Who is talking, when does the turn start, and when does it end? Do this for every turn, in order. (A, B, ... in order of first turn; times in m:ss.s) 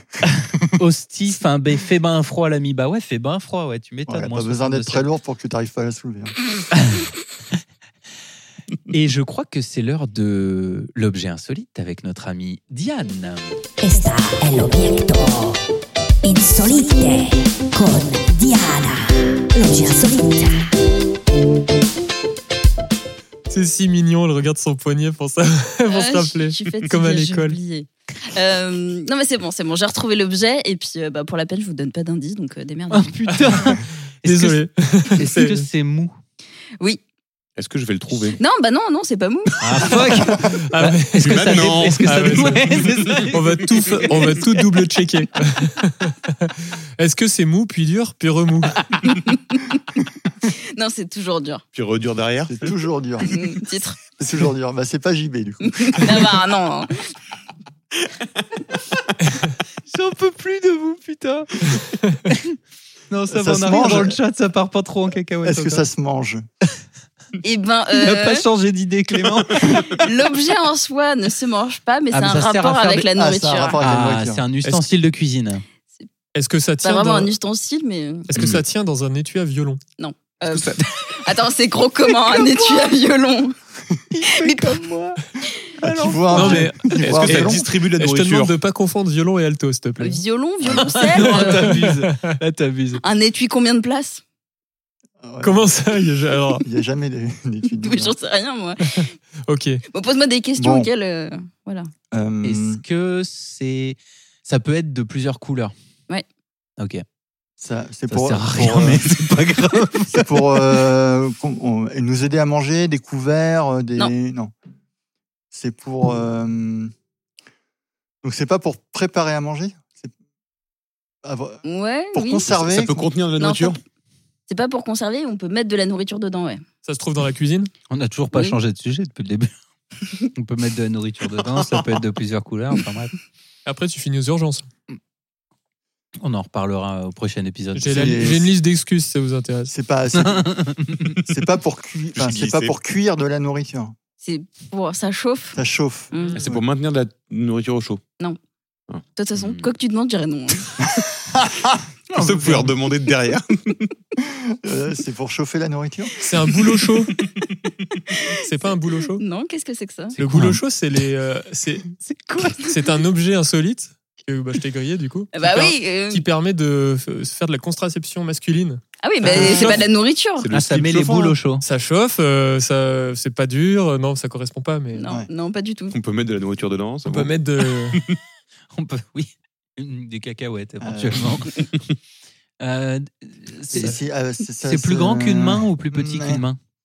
0:00.2-0:05.1 A
0:04.1-0:06.3 B
0:06.7-0:07.1 A
0:08.9-0:13.6 A
0:13.8-0:15.6 C
0:16.2-0:20.7 C
0:23.5-0:27.6 D
0:25.9-0:33.2 E
0:32.9-0:36.2 A
0:33.3-0:35.7 D
0:37.6-0:38.4 F
0:38.2-0:40.0 E
0:39.6-0:44.4 A
0:40.3-0:48.8 D
0:41.2-0:43.2 F
0:49.0-0:49.6 E
0:50.5-0:51.6 E
0:51.7-0:52.7 F
0:52.5-0:53.4 B
0:53.2-0:54.0 E
0:54.2-0:56.4 B
0:55.6-0:57.0 E
0:59.9-1:01.7 A
1:02.3-1:02.6 A
1:03.1-1:05.8 A
1:03.3-1:04.2 B
1:05.4-1:06.4 B
1:07.4-1:08.4 E
1:07.9-1:09.9 A
1:09.6-1:13.8 E
1:12.1-1:13.1 A
1:13.1-1:14.5 B
1:13.8-1:15.6 A
1:16.3-1:17.3 D
1:16.8-1:18.3 E
1:18.3-1:19.8 D
1:18.3-1:18.6 F
1:20.0-1:23.5 E
1:20.5-1:20.8 F
1:22.2-1:22.8 A
1:24.1-1:25.2 A
1:24.3-1:24.8 E
1:25.8-1:26.7 A
1:25.8-1:27.7 B
1:26.3-1:30.2 D
1:27.0-1:28.5 F
1:30.0-1:31.8 E
1:30.8-1:33.0 A
1:31.2-1:32.4 D
1:33.0-1:34.2 E
1:35.2-1:35.8 B
1:35.4-1:36.6 D
1:36.6-1:38.2 B
1:37.7-1:39.1 E
1:38.8-1:39.8 D
1:39.9-1:41.9 E
1:40.6-1:40.9 B
1:42.1-1:42.8 B
1:42.4-1:45.7 A
1:46.8-1:47.0 A
1:47.6-1:49.1 B
1:48.1-1:50.5 A
1:50.1-1:54.5 B
1:55.5-1:56.9 B
1:58.2-2:00.1 B
2:01.2-2:03.1 B
2:01.6-2:02.5 E
2:02.5-2:03.8 F
2:03.4-2:03.8 E
2:04.5-2:06.6 E
2:06.8-2:07.7 D
2:07.9-2:09.5 A
2:10.3-2:13.1 A
2:13.6-2:14.7 D
2:16.2-2:18.2 A
2:17.8-2:19.7 D
2:17.9-2:18.5 B
2:19.7-2:23.9 B
2:20.2-2:21.2 A
2:22.1-2:22.7 F
2:24.2-2:25.6 E
2:25.5-2:26.6 B
2:26.1-2:26.4 E
2:26.4-2:28.0 F
2:29.2-2:30.8 E
2:29.3-2:29.7 A
2:32.1-2:33.9 F
2:34.2-2:36.2 B
2:36.2-2:37.1 D
2:38.2-2:38.4 E
2:38.4-2:39.2 D
2:39.2-2:40.2 E
2:40.1-2:40.6 A
2:40.2-2:41.9 D
2:42.0-2:42.7 A
2:42.6-2:48.8 D
2:45.3-2:46.3 E
2:49.0-2:50.5 E
2:49.2-2:49.7 B
2:49.3-2:49.7 A
2:49.3-2:49.6 D
2:49.6-2:49.8 F
2:50.4-2:51.4 F
2:50.5-2:51.6 A
2:51.6-2:55.1 D
2:54.9-2:55.9 E
2:55.9-2:58.2 F
2:57.0-2:58.0 D
2:58.7-3:01.7 A
3:00.8-3:01.4 B
3:02.6-3:04.0 A
3:03.7-3:06.4 B
3:04.6-3:06.6 A